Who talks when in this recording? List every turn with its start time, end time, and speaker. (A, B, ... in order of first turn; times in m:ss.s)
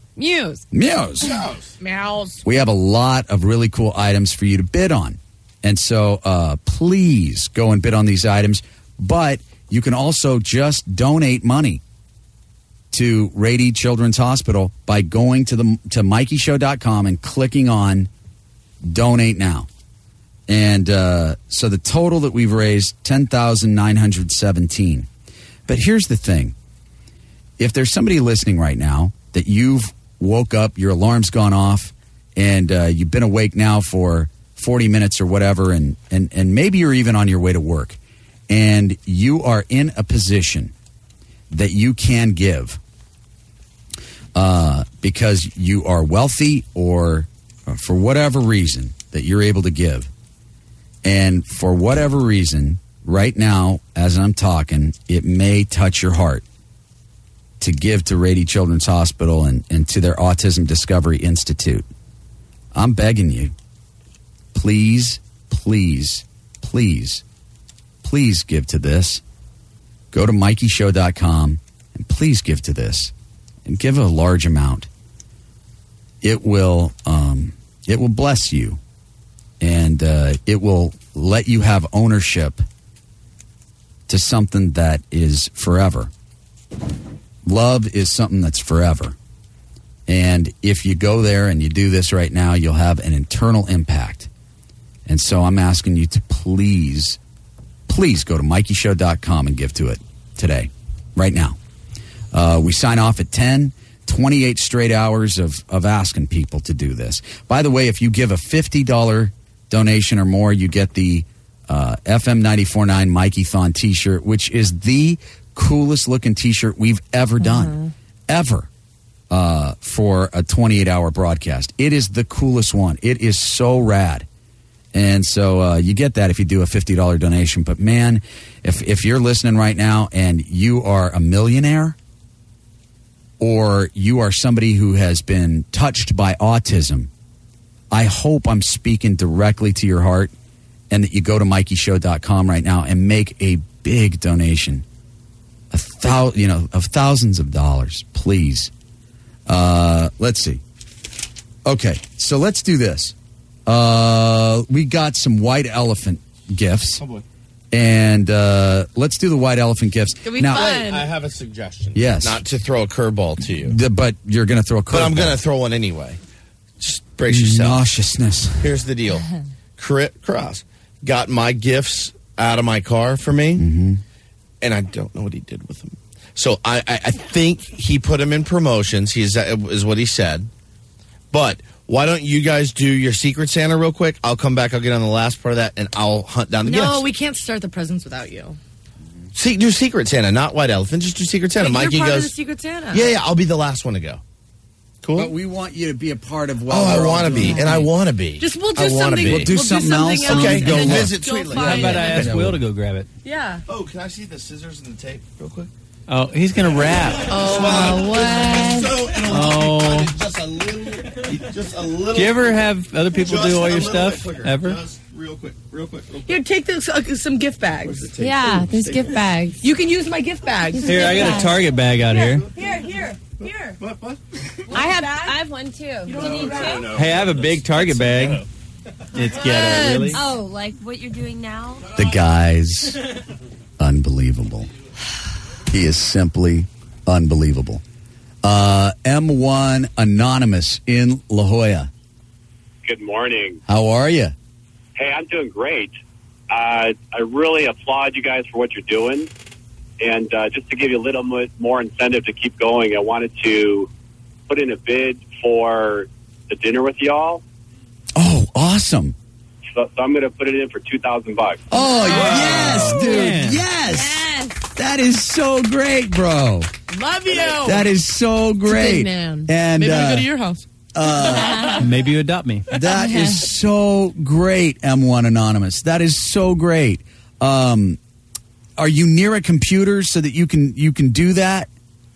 0:00.2-0:00.6 A
0:00.7-0:01.4 B
0:01.2-0:01.7 C
0:01.8-0:02.4 D
0:02.4-0:11.8 B
0:12.9-0:18.1 B
0:18.8-0:19.7 B
0:20.5-0:25.1 B
0:25.7-0:26.5 B
0:27.6-0:38.0 B
0:38.5-0:40.7 B
0:41.5-0:42.8 B
0:44.3-0:50.1 B
0:51.0-0:56.4 B
0:57.6-1:01.9 B
1:02.7-1:03.5 B
1:04.5-1:07.2 B
1:08.0-1:09.2 B
1:10.1-1:13.1 B
1:13.6-1:14.9 B
1:16.2-1:18.8 B
1:19.6-1:22.6 B
1:24.1-1:26.1 B
1:27.4-1:29.2 B
1:30.1-1:34.3 B
1:35.0-1:37.2 B
1:37.9-1:41.6 B
1:42.3-1:57.8 B
1:57.4-1:57.9 A
1:58.3-1:58.7 B
1:59.3-2:04.3 B
2:04.9-2:12.0 B
2:13.4-2:17.1 B
2:17.9-2:20.3 B
2:20.9-2:24.8 B
2:25.7-2:28.7 B
2:29.5-2:30.6 B
2:31.6-2:33.1 B
2:33.6-2:37.0 B
2:37.0-2:37.2 C
2:37.7-2:40.7 B
2:40.2-2:41.1 D
2:40.5-2:43.8 C
2:41.9-2:42.4 B
2:43.6-2:45.4 B
2:44.9-2:46.2 C
2:46.8-2:47.8 C
2:47.3-2:48.7 B
2:48.6-2:49.2 C
2:49.8-2:53.6 C
2:53.6-2:54.0 B
2:54.6-3:00.5 C
3:01.3-3:07.1 C
3:06.6-3:08.6 D
3:09.3-3:12.3 C
3:11.5-3:13.1 D
3:12.9-3:14.2 C
3:15.0-3:15.3 C
3:15.1-3:17.9 B
3:16.7-3:19.6 C
3:17.4-3:17.8 A
3:18.4-3:22.3 D
3:19.2-3:22.6 B
3:20.2-3:22.0 C
3:21.5-3:23.1 E
3:23.2-3:23.6 D
3:23.7-3:25.7 C
3:26.1-3:27.4 E
3:27.3-3:28.5 D
3:27.3-3:36.4 C
3:27.7-3:29.0 A
3:29.2-3:30.1 E
3:32.1-3:34.8 E
3:36.2-3:38.1 D
3:37.8-3:39.2 C
3:38.2-3:39.6 A
3:39.6-3:41.5 D
3:40.7-3:41.6 A
3:40.8-3:42.5 E
3:42.2-3:43.8 D
3:43.8-3:44.2 C
3:44.7-3:45.4 D
3:44.7-3:46.9 A
3:46.1-3:48.4 C
3:46.2-3:46.8 D
3:46.9-3:48.4 E
3:49.1-3:50.2 E
3:49.4-3:51.9 A
3:49.5-3:50.2 D
3:51.9-3:53.0 B
3:53.8-3:54.7 B
3:55.7-3:57.8 B
3:58.4-4:01.9 B
4:02.8-4:03.6 F
4:03.7-4:04.3 B
4:05.0-4:05.9 F
4:06.5-4:09.3 F
4:10.0-4:13.9 F
4:14.5-4:17.4 F
4:18.2-4:19.1 B
4:19.7-4:21.6 F
4:21.7-4:26.7 B
4:21.7-4:24.6 A
4:22.0-4:23.6 E
4:26.9-4:27.9 D
4:27.6-4:30.3 B
4:28.7-4:29.5 A
4:29.6-4:31.8 D
4:30.9-4:31.7 B
4:31.3-4:31.8 A
4:31.8-4:32.6 E
4:32.7-4:38.0 B
4:32.9-4:33.5 A
4:38.8-4:41.7 B